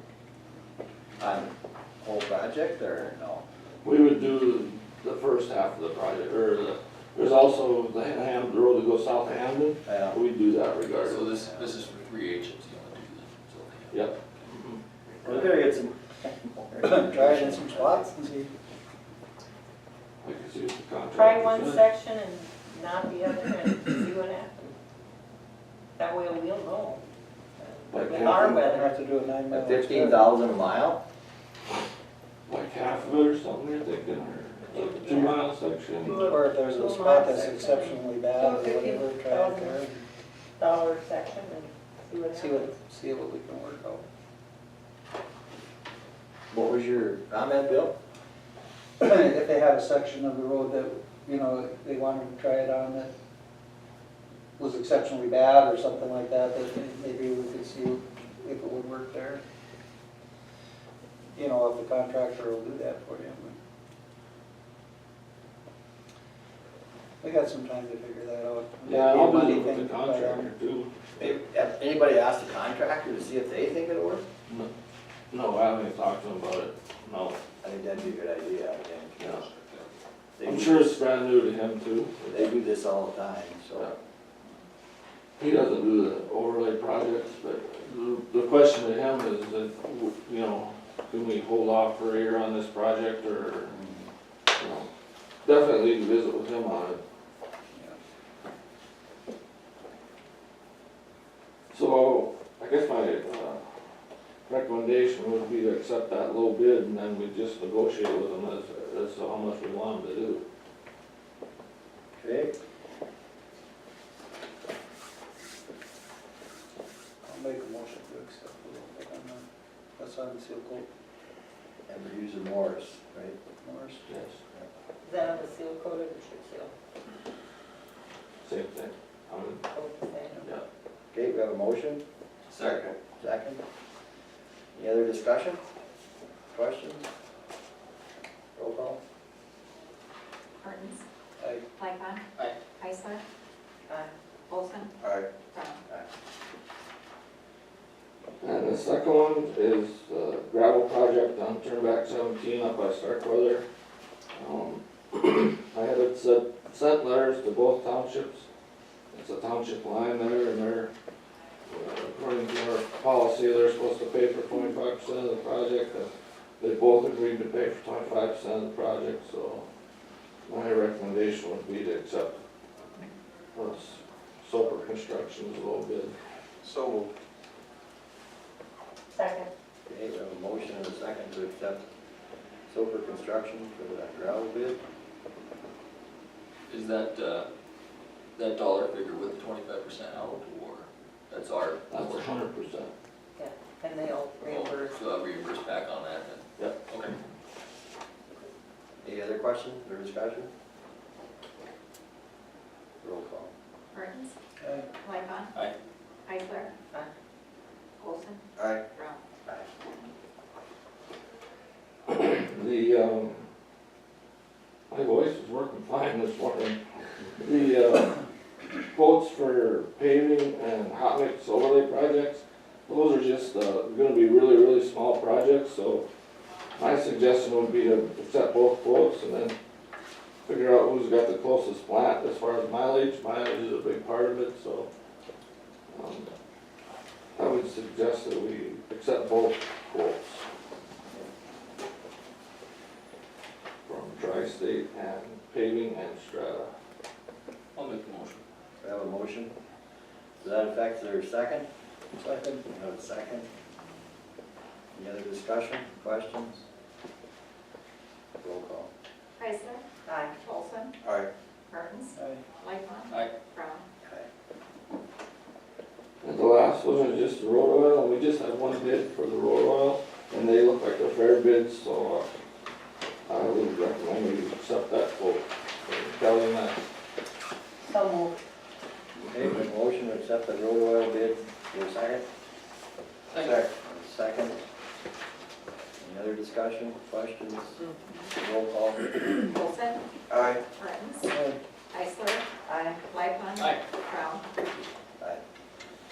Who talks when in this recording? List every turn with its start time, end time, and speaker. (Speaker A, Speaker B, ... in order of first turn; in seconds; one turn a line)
Speaker A: 1.2-3.4
Speaker B: 3.8-11.3
Speaker A: 9.8-10.2
Speaker C: 11.0-14.1
Speaker A: 11.3-12.0
Speaker B: 13.9-14.8
Speaker A: 15.2-18.1
Speaker D: 16.8-18.5
Speaker B: 20.2-21.8
Speaker E: 21.1-24.7
Speaker E: 26.0-27.0
Speaker E: 27.6-28.9
Speaker B: 27.9-28.6
Speaker D: 28.1-30.3
Speaker A: 29.5-31.0
Speaker B: 32.5-36.3
Speaker E: 34.7-35.4
Speaker E: 36.0-39.8
Speaker D: 36.2-40.0
Speaker E: 40.6-42.8
Speaker D: 42.3-44.0
Speaker A: 46.5-47.9
Speaker D: 49.0-53.1
Speaker D: 54.6-59.4
Speaker D: 61.4-63.6
Speaker D: 67.2-70.5
Speaker B: 68.8-70.9
Speaker A: 71.2-74.2
Speaker B: 75.3-77.4
Speaker A: 77.6-79.4
Speaker B: 79.2-79.4
Speaker C: 79.3-79.9
Speaker A: 80.4-80.8
Speaker B: 80.4-82.5
Speaker A: 82.2-83.9
Speaker B: 85.4-93.7
Speaker A: 93.7-94.1
Speaker B: 94.5-94.9
Speaker B: 95.4-97.0
Speaker B: 101.7-103.6
Speaker B: 104.5-110.4
Speaker A: 112.2-112.5
Speaker D: 117.2-119.4
Speaker D: 120.0-120.9
Speaker A: 121.9-123.4
Speaker D: 123.6-124.0
Speaker B: 124.1-124.4
Speaker E: 125.0-126.7
Speaker B: 128.4-129.6
Speaker E: 129.7-130.4
Speaker A: 131.1-132.0
Speaker C: 132.5-132.9
Speaker A: 132.5-133.6
Speaker A: 134.7-135.6
Speaker A: 136.5-137.1
Speaker A: 138.6-139.0
Speaker F: 140.6-141.0
Speaker F: 141.8-143.2
Speaker F: 144.5-144.9
Speaker F: 145.5-145.8
Speaker B: 148.4-153.7
Speaker B: 154.3-158.5
Speaker B: 159.1-160.9
Speaker B: 161.7-169.7
Speaker B: 170.4-172.4
Speaker B: 173.5-176.1
Speaker E: 179.1-179.5
Speaker A: 179.9-181.8
Speaker A: 182.7-184.8
Speaker C: 186.7-187.5
Speaker C: 188.3-192.3
Speaker B: 191.9-192.9
Speaker E: 193.4-195.0
Speaker C: 194.4-197.1
Speaker A: 199.0-200.5
Speaker A: 203.0-203.5
Speaker F: 203.9-204.3
Speaker D: 204.6-204.9
Speaker F: 205.0-205.5
Speaker F: 206.2-206.7
Speaker F: 208.0-209.2
Speaker A: 208.6-208.8
Speaker B: 212.1-213.5
Speaker B: 214.9-216.8
Speaker B: 217.4-218.2
Speaker B: 218.9-226.0
Speaker B: 226.8-229.6
Speaker B: 230.4-234.9
Speaker B: 235.9-236.3
Speaker B: 237.3-240.4
Speaker B: 243.8-246.7
Speaker C: 247.8-248.4
Speaker A: 248.8-249.5
Speaker A: 250.4-251.7
Speaker D: 252.2-252.6
Speaker A: 252.7-253.5
Speaker A: 254.9-256.6
Speaker A: 258.4-258.9
Speaker F: 259.4-260.9
Speaker E: 260.1-260.4
Speaker F: 261.7-263.9
Speaker D: 262.1-262.4
Speaker A: 264.0-264.3
Speaker B: 266.2-272.3
Speaker B: 273.2-276.9
Speaker E: 277.8-278.4
Speaker A: 279.2-282.2
Speaker C: 283.3-283.7
Speaker A: 283.6-284.6
Speaker A: 286.0-287.8
Speaker A: 288.3-289.3
Speaker F: 289.4-290.1
Speaker F: 290.6-291.3
Speaker D: 291.3-291.6
Speaker F: 291.9-294.4
Speaker C: 293.6-293.8